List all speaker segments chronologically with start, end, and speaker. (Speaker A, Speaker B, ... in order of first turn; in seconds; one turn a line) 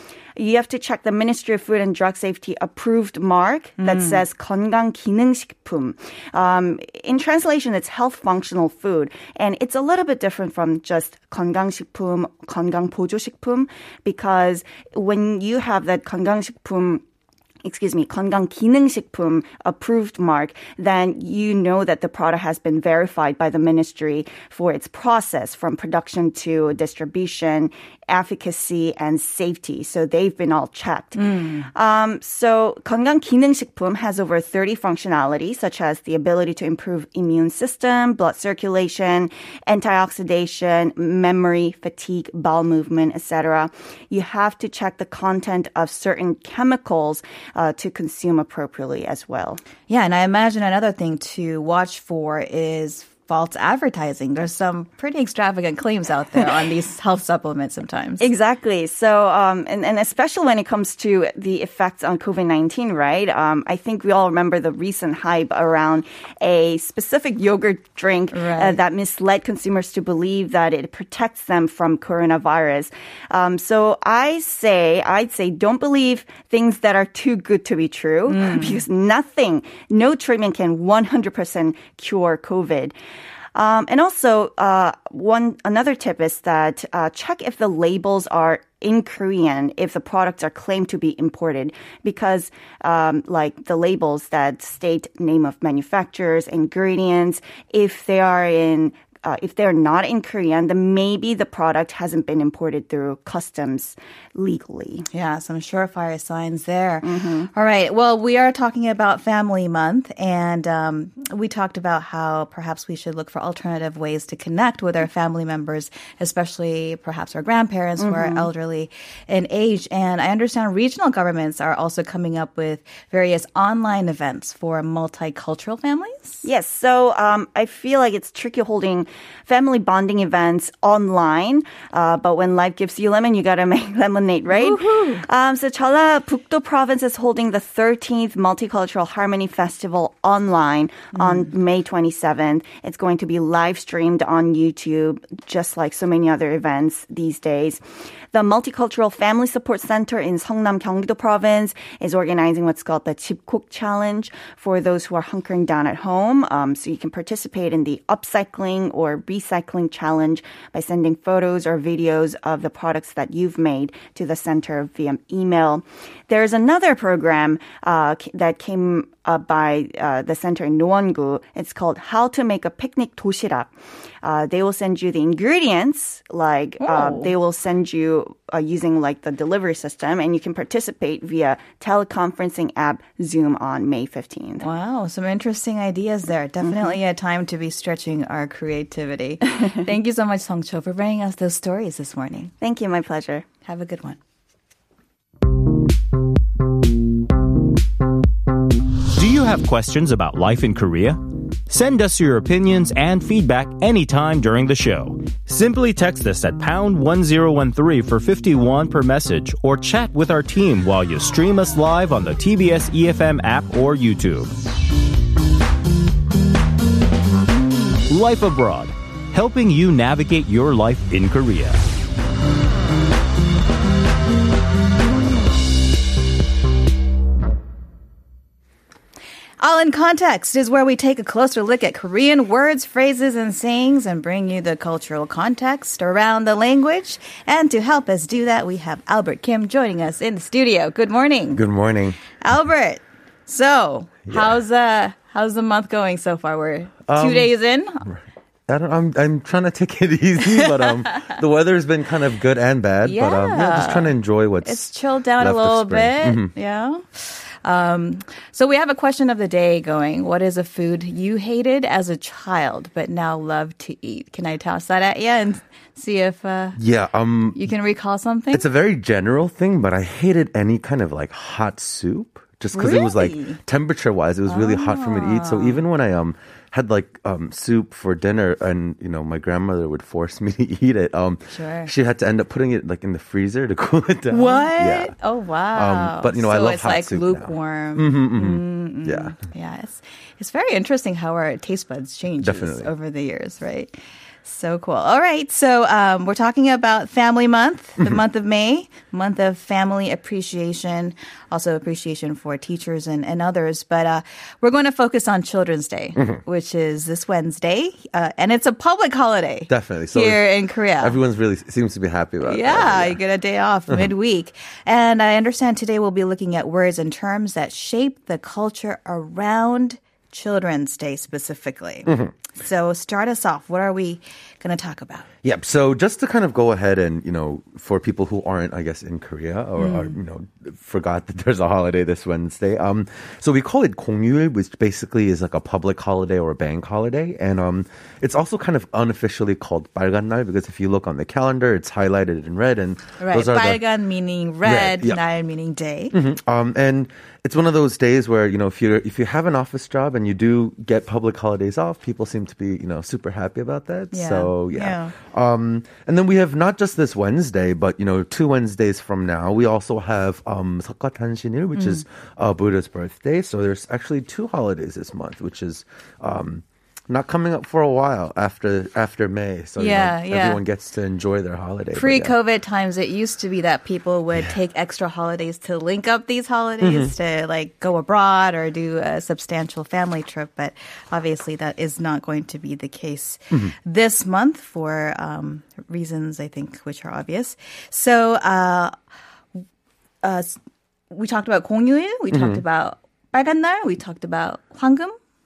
Speaker A: 0.3-17.0
Speaker B: 3.8-4.2
Speaker A: 17.6-49.6
Speaker B: 31.1-31.7
Speaker B: 49.9-58.2
Speaker A: 58.2-82.9
Speaker B: 68.3-68.8
Speaker B: 78.3-78.8
Speaker A: 83.5-105.0
Speaker B: 105.1-126.4
Speaker A: 107.0-107.5
Speaker A: 118.0-118.5
Speaker A: 126.4-147.8
Speaker B: 134.5-135.2
Speaker B: 141.1-141.4
Speaker A: 148.3-173.7
Speaker A: 174.2-184.6
Speaker B: 176.8-177.3
Speaker B: 184.6-192.5
Speaker A: 192.6-193.4
Speaker B: 193.6-194.2
Speaker C: 199.1-214.5
Speaker C: 218.1-221.8
Speaker B: 229.6-241.6
Speaker D: 241.5-242.2
Speaker B: 242.4-248.1
Speaker D: 247.1-247.5
Speaker D: 248.1-254.9
Speaker B: 250.8-251.3
Speaker B: 253.0-266.8
Speaker D: 255.4-256.5
Speaker D: 266.8-267.6
Speaker B: 267.5-268.7
Speaker D: 268.5-285.1
Speaker B: 272.7-273.6
Speaker B: 274.4-275.8
Speaker B: 281.5-281.9
Speaker B: 284.3-293.9
Speaker D: 285.7-289.3
Speaker D: 292.4-292.9
Speaker B: 294.4-311.2
Speaker D: 309.7-313.2
Speaker B: 312.4-325.3
Speaker D: 322.1-322.3
Speaker D: 325.4-343.8
Speaker B: 329.8-330.1
Speaker B: 343.2-346.1
Speaker D: 344.6-345.2
Speaker D: 346.1-372.3
Speaker B: 354.1-355.1
Speaker B: 361.7-362.0
Speaker B: 369.8-370.6
Speaker B: 371.9-388.9
Speaker D: 376.8-377.1
Speaker B: 390.2-390.6
Speaker B: 391.1-395.1
Speaker D: 392.3-392.6